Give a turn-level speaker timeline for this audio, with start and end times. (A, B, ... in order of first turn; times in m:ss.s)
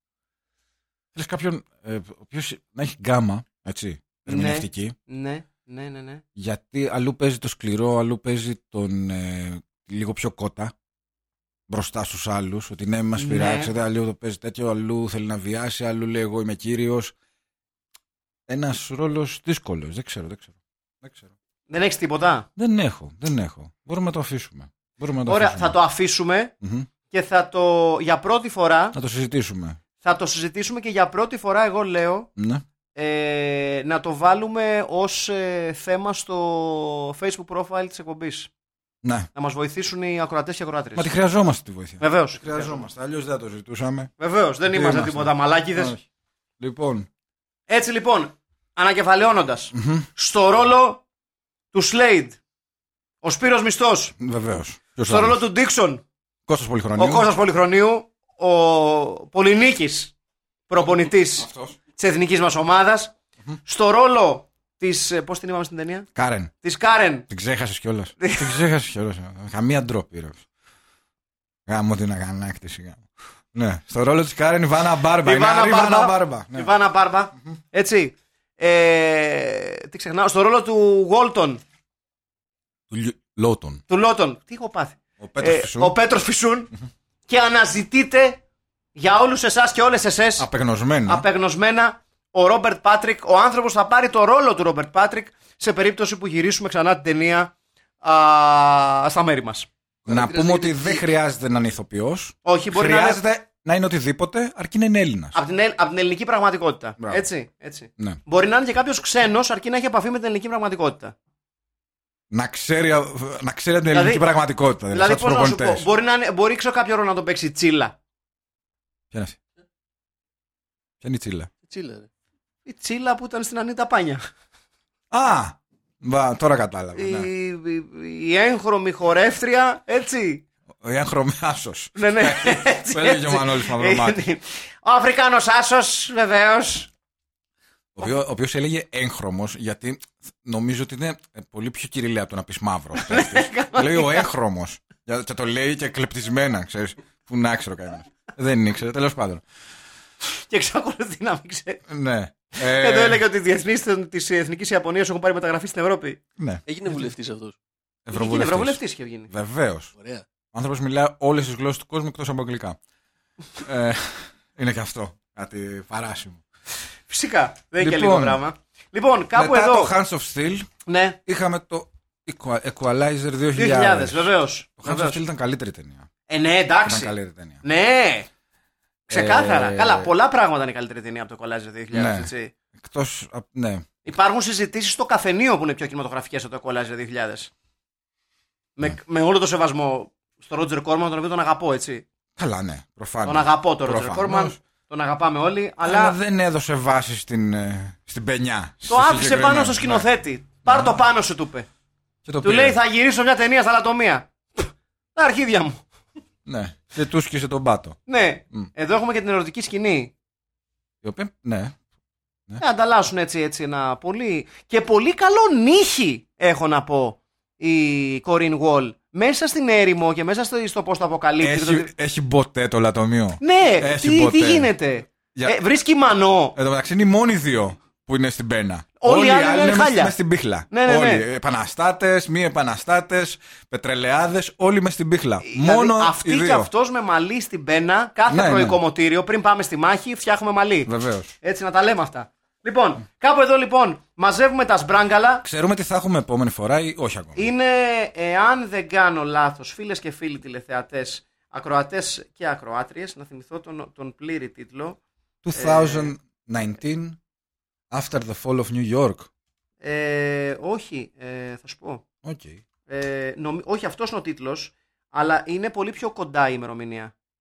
0:01.1-0:04.9 A
0:04.3-0:06.2 B
0:06.4-0:10.7 A
0:11.7-0:17.1 A
0:13.2-0:13.7 B
0:18.5-0:21.3 A
0:21.7-0:22.5 B
0:22.6-0:25.8 A
0:25.2-0:26.5 B
0:26.6-0:26.9 A
0:27.1-0:29.0 B
0:28.9-0:29.8 A
0:30.0-0:32.3 B
0:32.4-0:32.6 A
0:32.9-0:38.5 B
0:39.0-0:39.3 A
0:39.3-0:41.1 B
0:41.0-0:44.1 A
0:42.0-0:42.8 B
0:44.2-0:46.0 B
0:44.7-0:46.0 A
0:46.6-0:47.1 A
0:47.7-0:51.0 B
0:49.7-0:50.1 A
0:51.7-0:52.4 B
0:53.2-0:54.1 B
0:54.2-0:55.4 A
0:55.0-0:56.0 B
0:56.5-0:57.3 A
0:57.0-1:00.1 B
1:00.7-1:06.1 B
1:00.8-1:01.8 A
1:06.1-1:06.5 A
1:06.6-1:07.3 B
1:07.3-1:10.4 A
1:08.2-1:08.6 B
1:11.7-1:16.7 A
1:15.2-1:21.6 B
1:22.9-1:23.8 A
1:23.9-1:26.7 B
1:25.2-1:25.9 A
1:27.3-1:28.4 B
1:28.9-1:30.5 B
1:30.4-1:31.2 A
1:31.1-1:39.7 B
1:40.0-1:45.4 A
1:40.1-1:41.0 C
1:42.4-1:43.2 B
1:45.3-1:51.1 B
1:47.0-1:47.2 A
1:52.3-1:55.8 A
1:53.9-1:54.2 B
1:54.9-1:57.9 B
1:59.1-1:59.4 A
2:01.0-2:01.5 A
2:01.6-2:02.1 C
2:02.6-2:04.2 B
2:05.1-2:07.3 A
2:07.0-2:10.4 B
2:10.8-2:14.2 A
2:12.0-2:16.9 B
2:18.0-2:29.4 A
2:23.0-2:24.3 B
2:30.5-2:31.8 B
2:31.9-2:33.2 A
2:32.6-2:36.2 B
2:36.7-2:37.6 C
2:38.0-2:39.9 A
2:38.1-2:39.3 B
2:40.0-2:40.2 C
2:40.5-2:42.8 A
2:43.6-2:46.4 A
2:47.1-2:49.9 B
2:47.8-2:48.4 A
2:49.3-2:50.7 A
2:50.8-2:51.2 B
2:51.2-2:56.1 A
2:53.5-2:55.2 B
2:56.3-2:58.3 B
2:56.8-2:57.6 A
2:59.1-3:02.5 B
2:59.1-3:00.1 A
3:01.9-3:03.9 A
3:04.0-3:07.5 B
3:08.8-3:12.0 B
3:12.4-3:14.6 A
3:13.2-3:16.2 B
3:15.8-3:20.0 A
3:18.9-3:21.7 B
3:20.6-3:21.0 A
3:22.2-3:22.8 A
3:22.4-3:25.8 B
3:26.4-3:28.0 A
3:28.1-3:30.1 B
3:31.0-3:31.8 A
3:32.6-3:41.9 B
3:41.4-3:44.7 A
3:43.4-3:46.5 B
3:46.5-3:56.7 A
3:49.0-3:50.1 B
3:50.7-3:51.2 B
3:55.4-4:05.4 B
3:58.3-3:58.8 A
4:00.8-4:01.3 A
4:05.4-4:07.4 A
4:07.4-4:15.0 B
4:15.4-4:17.2 A
4:15.5-4:16.1 B
4:17.9-4:19.3 A
4:19.8-4:22.0 B
4:22.2-4:22.6 A
4:22.9-4:27.1 B